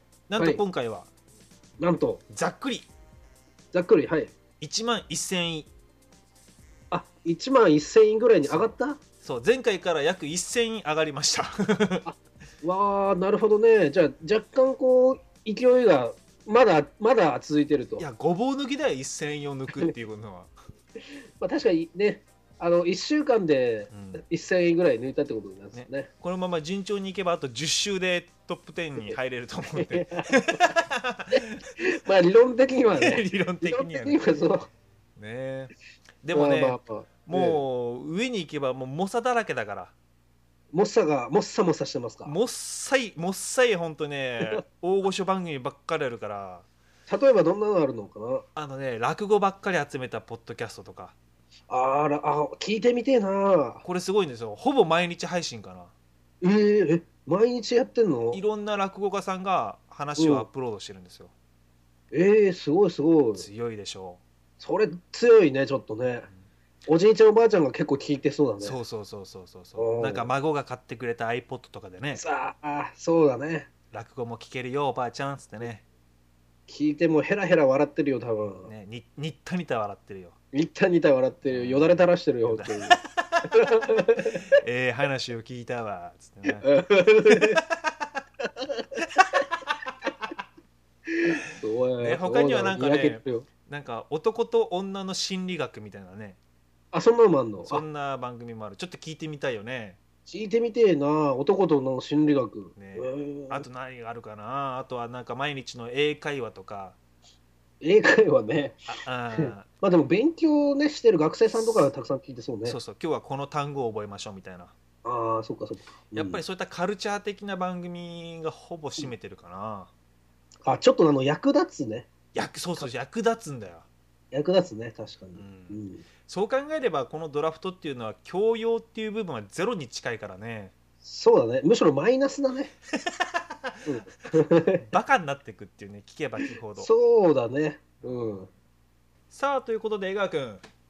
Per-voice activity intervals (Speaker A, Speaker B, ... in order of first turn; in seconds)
Speaker A: 0.3-1.1, 2.3-2.9, 4.6-5.7, 8.5-12.1, 18.0-20.5, 23.9-24.2, 25.7-31.6, 33.0-34.2, 35.2-39.9, 42.2-46.7, 48.5-51.1, 53.8-55.9, 58.3-61.3, 63.4-64.2, 68.6-72.2, 73.9-75.8, 78.7-80.4, 81.5-83.7, 84.3-86.7, 87.3-88.1, 89.1-89.9, 92.0-96.4, 97.7-100.0, 102.8-107.0, 108.9-109.7, 112.6-114.8, 116.1-119.9, 122.3-123.9, 125.3-130.7, 133.0-133.8, 134.8-136.9, 139.3-140.6
Speaker B: 0.4-0.6, 1.8-2.2, 3.7-4.3, 6.9-9.0, 12.1-18.1, 21.4-26.1, 29.8-30.7, 31.3-34.7, 36.3-37.6, 40.7-42.3, 47.1-48.5, 51.7-53.8, 56.4-58.4, 60.2-60.5, 62.1-63.5, 64.6-66.3, 66.9-68.8, 69.8-70.3, 72.1-73.7, 76.7-78.7, 80.5-83.0, 83.5-84.5, 86.5-87.6, 91.1-93.5, 96.9-97.8, 100.3-103.7, 107.8-112.8, 115.0-116.4, 120.6-122.1, 124.3-126.0, 131.0-132.7, 133.9-134.8, 136.8-138.5